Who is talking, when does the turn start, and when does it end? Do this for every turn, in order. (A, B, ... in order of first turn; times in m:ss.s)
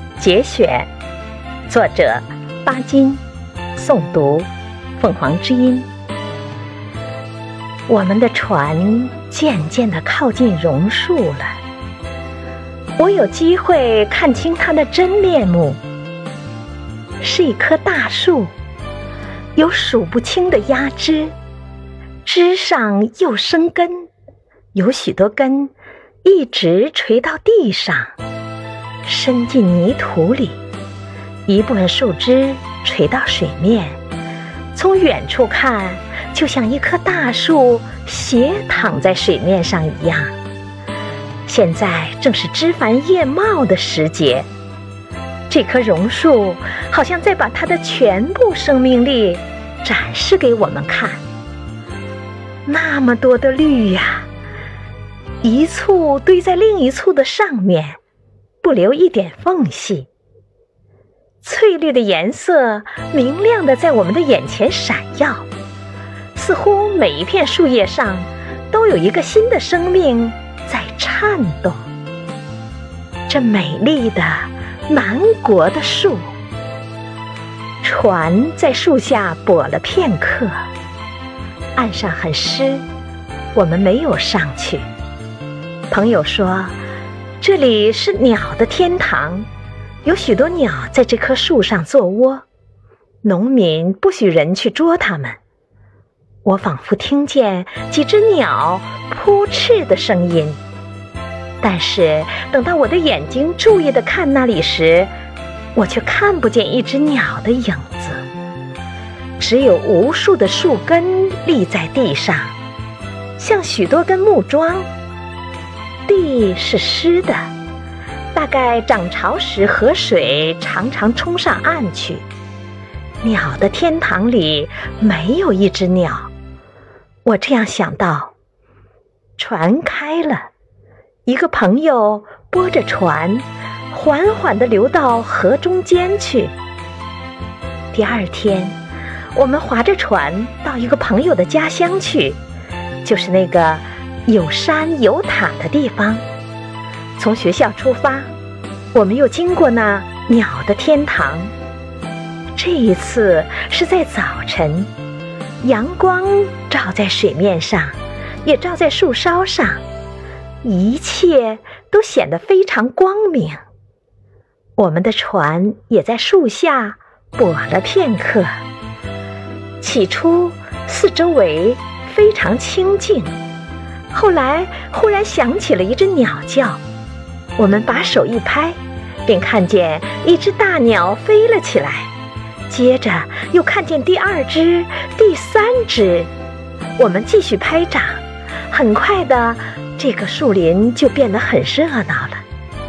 0:00.2-0:00.9 A
0:01.7-0:03.2 A
0:03.8-0:05.9 A
0:07.9-0:11.6 A
0:13.0-0:15.8 A
0:17.2-0:18.5 A
0:19.6-0:21.4 A
0:22.2-0:24.1 A
0:24.7-0:25.7 A
0:26.2-0:28.1 A
0:29.0-0:30.6 A
0:31.5-0:34.0 A
0:34.7-0:40.4 A
0:41.5-0:44.5 A
0:45.5-0:51.2 A
0:52.7-0:54.3 A
0:55.4-0:58.0 A
0:58.6-1:00.1 A
1:01.4-1:05.5 A
1:06.4-1:11.9 A
1:13.3-1:16.3 A
1:17.8-1:20.7 A
1:21.8-1:22.9 A
1:23.6-1:24.9 A
1:25.9-1:26.8 A
1:27.4-1:29.5 A
1:30.0-1:32.4 A
1:33.2-1:35.4 A
1:36.4-1:40.6 A
1:41.6-1:45.1 A
1:45.8-1:48.3 A
1:49.4-1:52.6 A
1:53.4-1:54.9 A
1:56.1-1:57.5 A
1:58.3-2:02.3 A
2:03.2-2:06.3 A
2:07.2-2:08.3 A
2:09.4-2:10.5 A
2:11.3-2:16.6 A
2:17.9-2:18.8 A
2:19.3-2:22.4 A
2:23.0-2:26.2 A
2:27.2-2:28.3 A
2:28.9-2:31.5 A
2:32.6-2:34.9 A
2:35.6-2:39.8 A
2:40.6-2:43.6 A
2:44.8-2:48.6 A
2:49.8-2:53.4 A
2:54.1-2:56.8 A
2:57.6-3:02.1 A
3:02.7-3:06.3 A
3:07.0-3:12.4 A